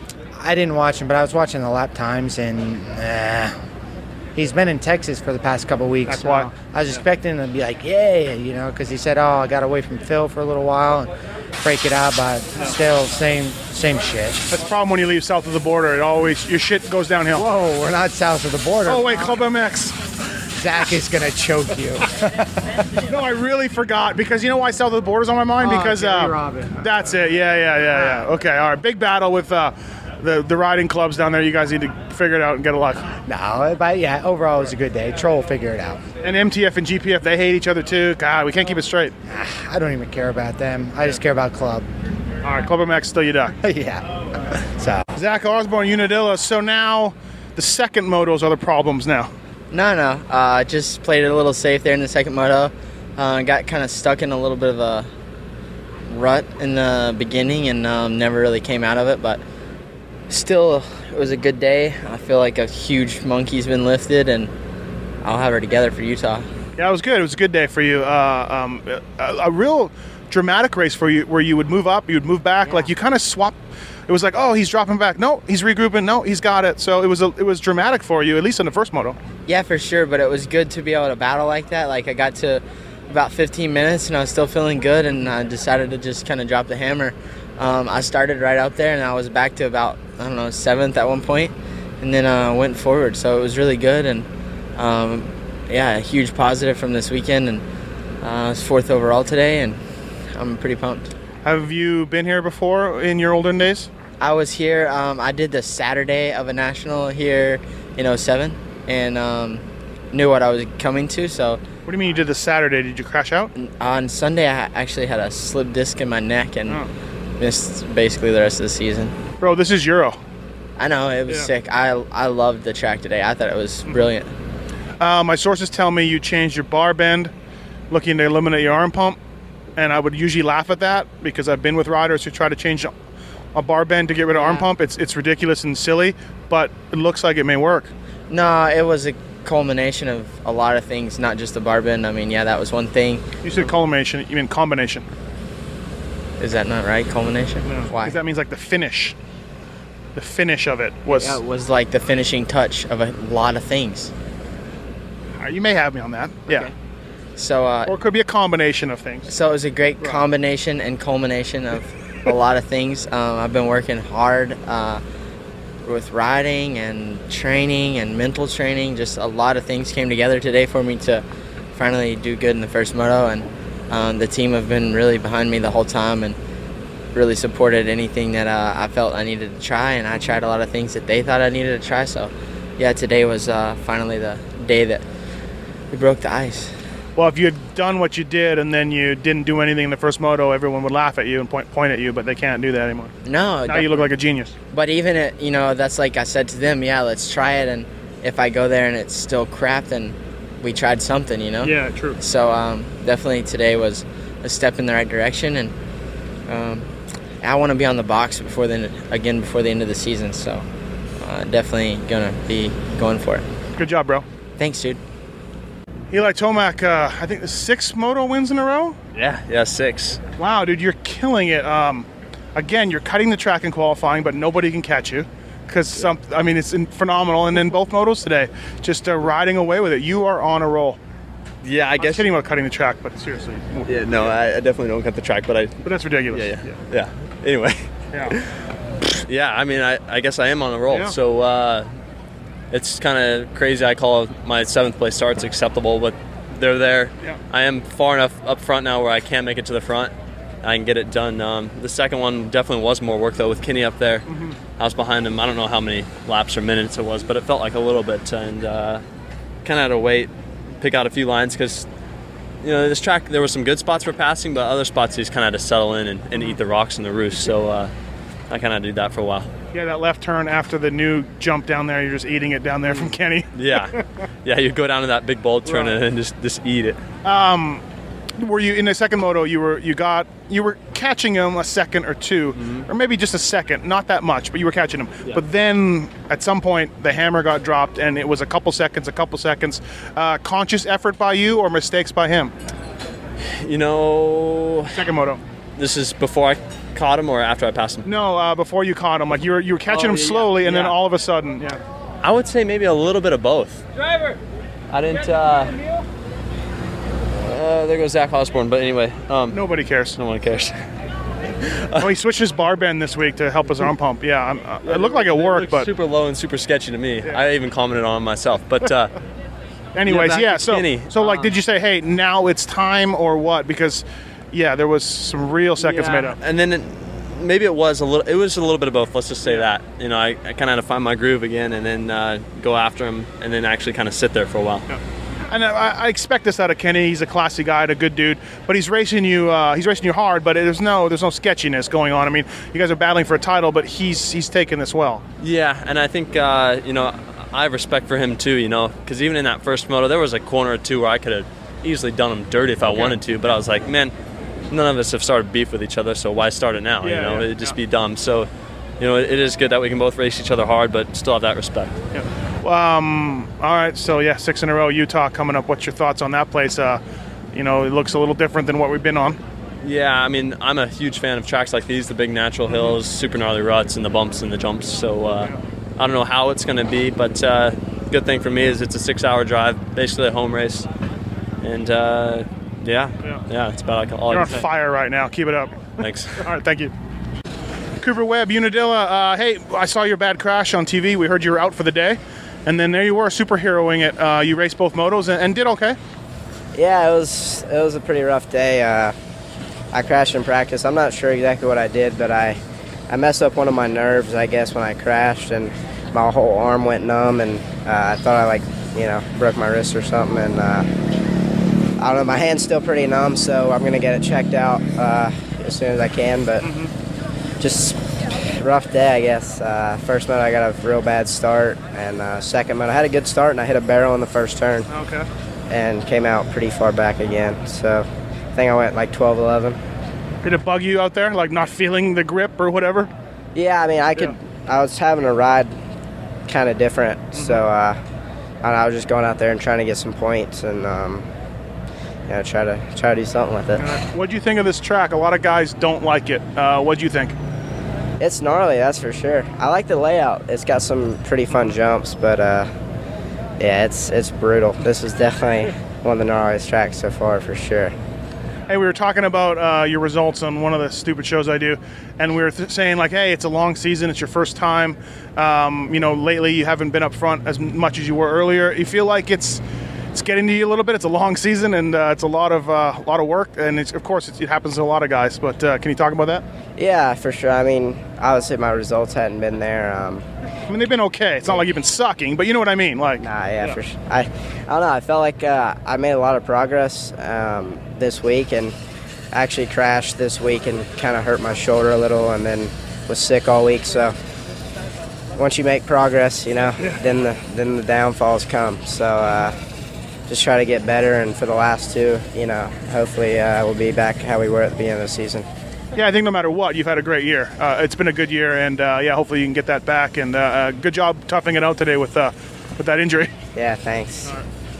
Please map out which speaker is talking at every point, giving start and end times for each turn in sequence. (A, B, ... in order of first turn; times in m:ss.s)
0:00.4-0:03.6 A
0:04.4-0:14.4 A
0:06.1-0:06.5 B
0:14.5-0:17.4 B
0:17.4-0:19.4 A
0:18.9-0:20.0 B
0:20.6-0:22.9 A
0:23.1-0:33.1 B
0:25.6-0:26.7 A
0:33.2-0:36.0 A
0:36.2-0:39.1 B
0:39.3-0:41.9 A
0:42.4-0:43.6 B
0:43.6-0:45.0 A
0:45.2-0:49.3 B
0:49.7-0:55.1 C
0:56.1-0:59.4 C
1:00.3-1:04.5 C
1:05.2-1:06.5 C
1:06.8-1:13.6 B
1:14.1-1:19.2 B
1:19.5-1:37.6 C
1:38.2-1:39.8 C
1:40.3-1:41.1 C
1:41.4-1:43.9 B
1:44.2-1:51.6 C
1:51.9-1:53.5 B
1:53.6-1:56.8 C
1:57.4-1:59.2 C
1:59.4-2:00.2 B
2:00.8-2:04.3 C
2:05.0-2:07.3 B
2:07.9-2:09.2 B
2:09.8-2:12.9 B
2:13.5-2:17.9 B
2:14.3-2:14.7 C
2:18.3-2:23.7 C
2:23.4-2:25.0 B
2:26.4-2:28.2 C
2:27.7-2:29.2 B
2:30.2-2:31.4 B
2:31.1-2:34.1 C
2:35.4-2:36.7 B
2:37.4-2:38.0 C
2:37.9-2:39.3 B
2:39.3-2:45.0 C
2:45.8-2:56.4 C
2:57.1-3:05.0 C
3:05.9-3:06.7 C
3:07.2-3:13.1 B
3:13.2-3:14.0 C
3:13.7-3:14.5 B
3:14.7-3:25.7 C
3:21.6-3:22.2 B
3:26.5-3:26.9 C
3:27.4-3:30.7 C
3:31.2-3:33.4 C
3:33.8-3:34.2 B
3:34.6-3:35.0 C
3:36.1-3:39.0 B
3:39.1-3:40.2 D
3:40.4-3:51.0 B
3:51.6-3:52.3 D
3:52.0-3:54.4 B
3:53.9-3:55.8 D
3:55.8-3:56.8 B
3:56.3-3:58.5 D
3:59.0-4:01.9 D
4:00.9-4:01.2 B
4:02.7-4:14.3 D
4:14.3-4:14.6 B
4:14.8-4:19.0 D
4:19.6-4:21.9 D
4:22.6-4:27.9 D
4:28.5-4:29.5 D
4:29.7-4:34.0 B
4:33.5-4:37.0 D
4:35.7-4:36.0 B
4:37.2-4:37.8 B
4:38.4-4:52.5 B
4:42.6-4:42.9 D
4:53.4-4:55.1 D
4:54.9-4:55.4 B
4:55.8-4:58.1 D
4:58.0-5:01.8 B
4:59.9-5:01.0 D
5:02.2-5:03.8 D
5:04.9-5:05.7 D
5:07.4-5:09.6 D
5:09.5-5:10.2 B
5:10.2-5:10.8 D
5:11.6-5:12.1 D
5:12.0-5:15.9 B
5:14.9-5:19.1 D
5:19.9-5:26.4 B
5:20.1-5:21.5 D
5:25.9-5:34.9 D
5:34.9-5:45.2 B
5:45.4-5:54.1 D
5:52.9-5:53.2 B
5:54.7-6:02.0 D
5:57.0-5:57.8 B
6:02.1-6:07.0 B
6:07.5-6:09.4 B
6:09.8-6:20.9 D
6:12.7-6:13.0 B
6:21.6-6:24.7 D
6:24.3-6:25.8 B
6:26.0-6:26.5 D
6:26.4-6:26.9 B
6:28.0-6:36.0 B
6:36.8-6:39.2 E
6:39.9-6:50.9 E
6:52.0-6:56.7 E
6:56.6-6:56.9 B
6:57.6-7:04.9 E
7:04.9-7:05.3 B
7:05.7-7:09.8 E
7:10.4-7:13.1 B
7:13.6-7:15.8 E
7:16.5-7:18.0 E
7:17.4-7:17.6 B
7:18.6-7:21.3 E
7:22.3-7:23.9 E
7:23.8-7:27.4 B
7:28.2-7:32.7 E
7:33.6-7:37.9 E
7:38.7-7:56.4 B
7:56.8-8:00.2 E
8:00.7-8:03.8 B
8:03.2-8:08.8 E
8:09.3-8:14.1 E
8:15.4-8:19.6 E
8:20.3-8:25.5 E
8:25.9-8:33.3 B
8:33.6-8:34.4 E